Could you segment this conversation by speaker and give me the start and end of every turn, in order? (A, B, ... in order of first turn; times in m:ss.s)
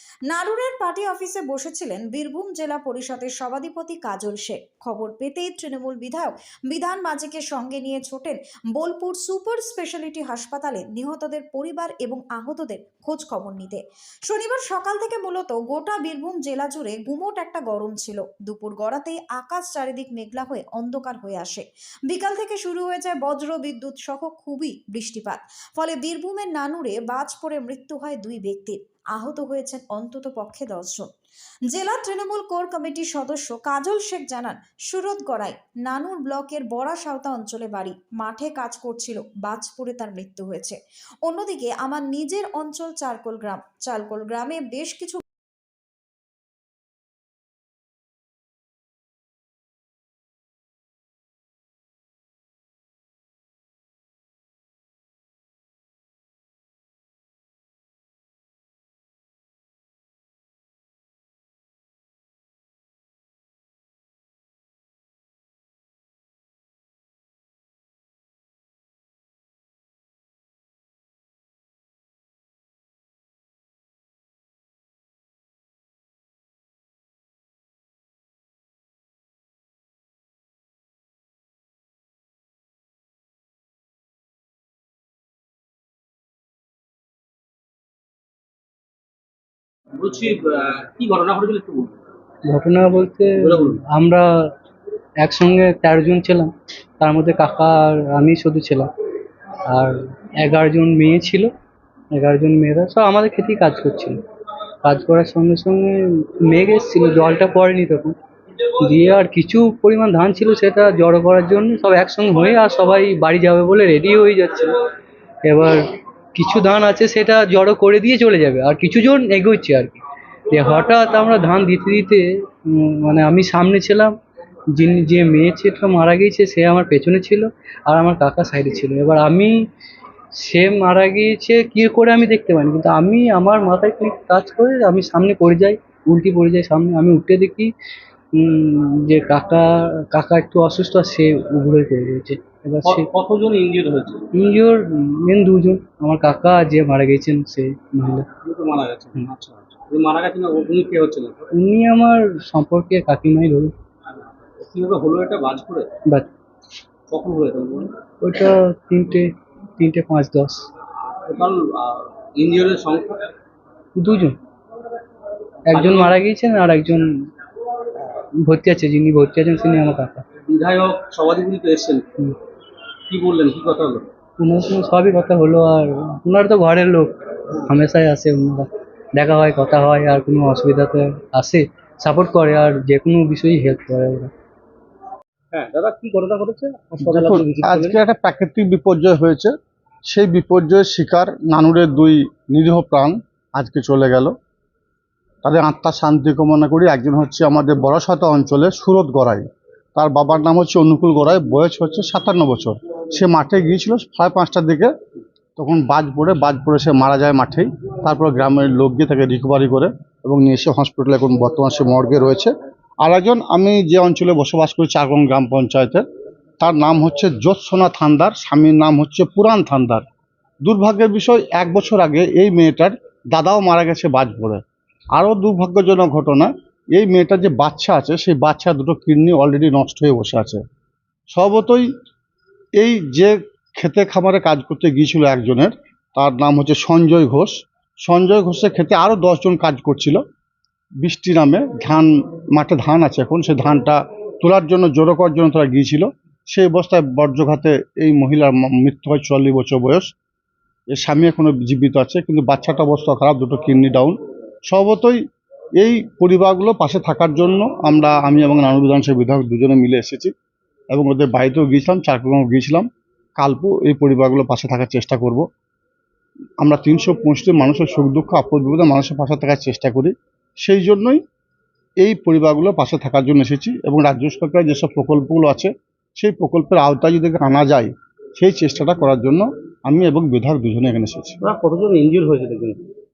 0:00.3-0:31.0 A
0:31.7-0:45.2 A
1:30.0-1:32.0 B
1:32.4-1:34.5 C
1:33.4-1:33.8 B
1:35.2-1:38.9 C
1:39.7-1:41.5 C
1:42.1-1:44.2 C
1:44.8-1:48.2 C
1:48.8-1:54.7 C
1:55.4-2:04.1 C
2:04.7-2:09.5 C
2:10.4-2:17.7 C
2:18.4-2:23.0 C
2:22.8-2:24.2 B
2:24.3-2:28.3 C
2:28.4-2:31.4 B
2:31.6-2:33.7 C
2:34.6-2:35.9 B
2:37.1-2:37.9 B
2:38.2-2:40.7 C
2:41.2-2:43.3 B
2:44.0-2:44.4 C
2:45.6-2:47.1 C
2:45.7-2:46.1 B
2:48.4-2:50.2 C
2:50.4-2:52.0 B
2:53.1-2:54.1 B
2:54.4-3:04.3 C
3:05.5-3:08.0 B
3:07.1-3:09.5 D
3:10.1-3:14.3 D
3:15.4-3:24.9 D
3:25.6-3:32.5 D
3:33.0-3:36.0 D
3:36.6-3:40.0 D
3:40.6-3:44.6 D
3:45.1-3:50.6 D
3:51.3-3:51.9 D
3:52.8-4:00.2 D
4:01.0-4:10.1 D
4:10.9-4:14.2 D
4:14.7-4:15.2 D
4:15.8-4:20.3 D
4:20.9-4:22.9 D
4:23.4-4:25.4 D
4:26.6-4:31.2 D
4:32.0-4:41.4 D
4:41.4-4:42.8 B